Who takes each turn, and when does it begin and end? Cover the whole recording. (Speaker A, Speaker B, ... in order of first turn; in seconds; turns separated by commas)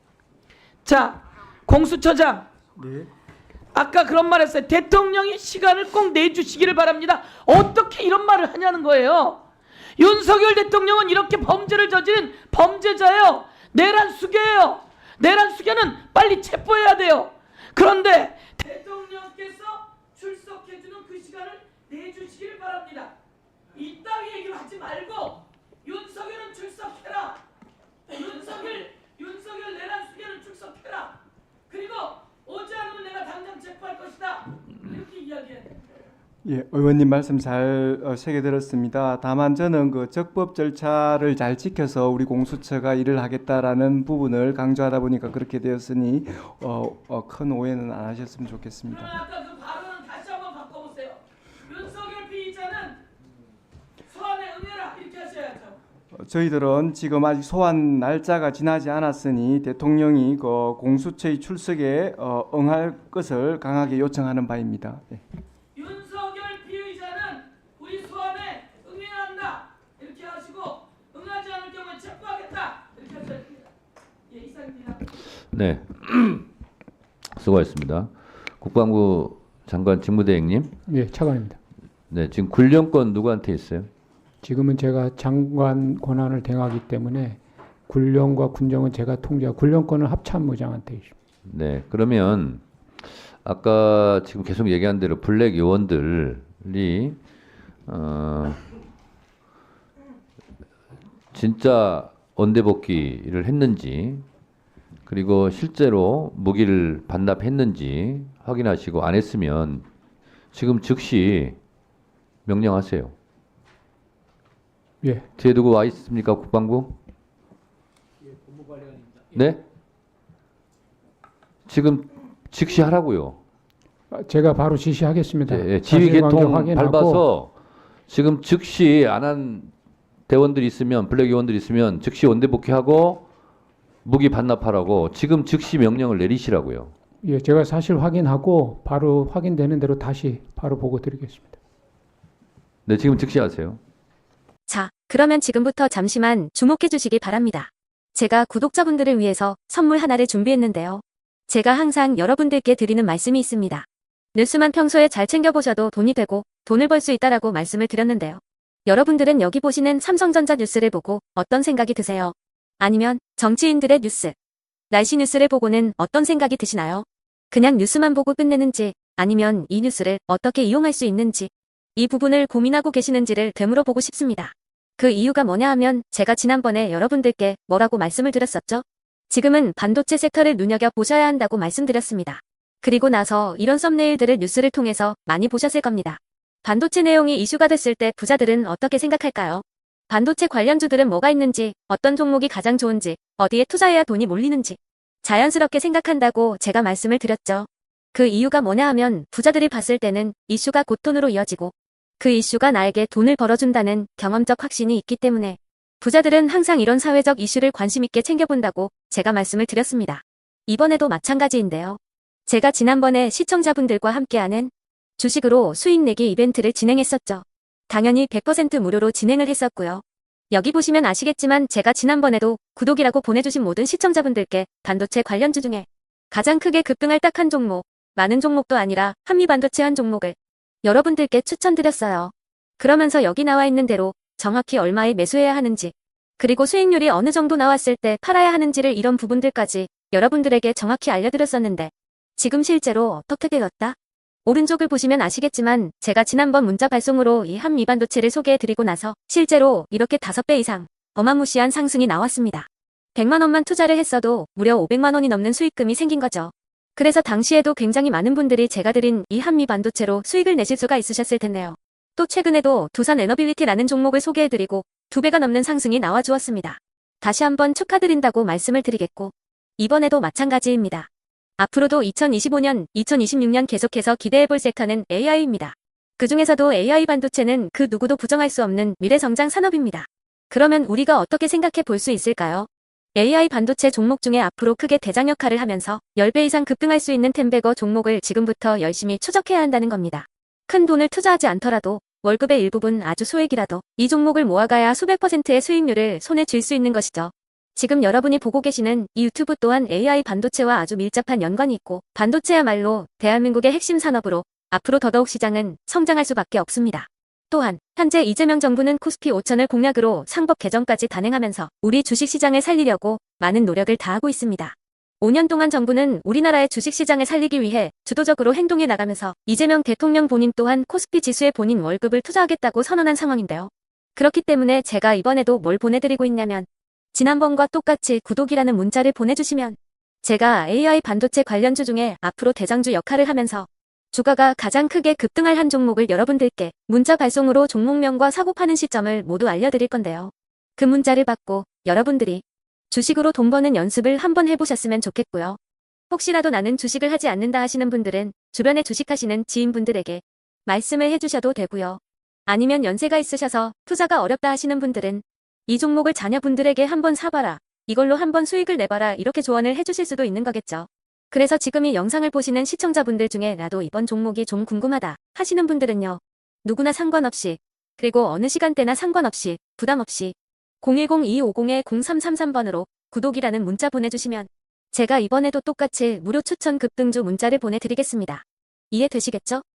Speaker A: 0.8-2.5, Speaker B: 2.8-3.1, Speaker A: 3.7-9.4, Speaker A: 10.0-23.1, Speaker A: 23.7-27.4, Speaker A: 28.1-31.2, Speaker A: 31.7-35.8, Speaker B: 36.5-49.1, Speaker A: 48.9-53.0, Speaker A: 54.1-55.8, Speaker B: 56.2-65.2, Speaker A: 65.8-73.7, Speaker A: 74.3-75.0, Speaker C: 75.5-76.5, Speaker C: 77.4-80.7, Speaker D: 80.9-81.6, Speaker C: 82.1-83.9, Speaker D: 84.4-91.2, Speaker C: 91.5-92.6, Speaker C: 93.4-97.2, Speaker C: 97.9-98.6, Speaker C: 101.3-104.2, Speaker C: 105.1-109.9, Speaker C: 110.5-111.6, Speaker C: 112.5-113.1, Speaker C: 115.4-117.0, Speaker C: 119.3-119.6, Speaker C: 121.7-123.4, Speaker D: 124.1-127.2, Speaker C: 125.5-127.5, Speaker C: 128.1-129.7, Speaker C: 130.3-133.2, Speaker C: 134.1-136.9, Speaker D: 137.2-141.6, Speaker C: 142.9-143.8, Speaker E: 144.7-164.3, Speaker E: 164.9-271.1, Speaker E: 271.6-345.6, Speaker E: 346.1-379.6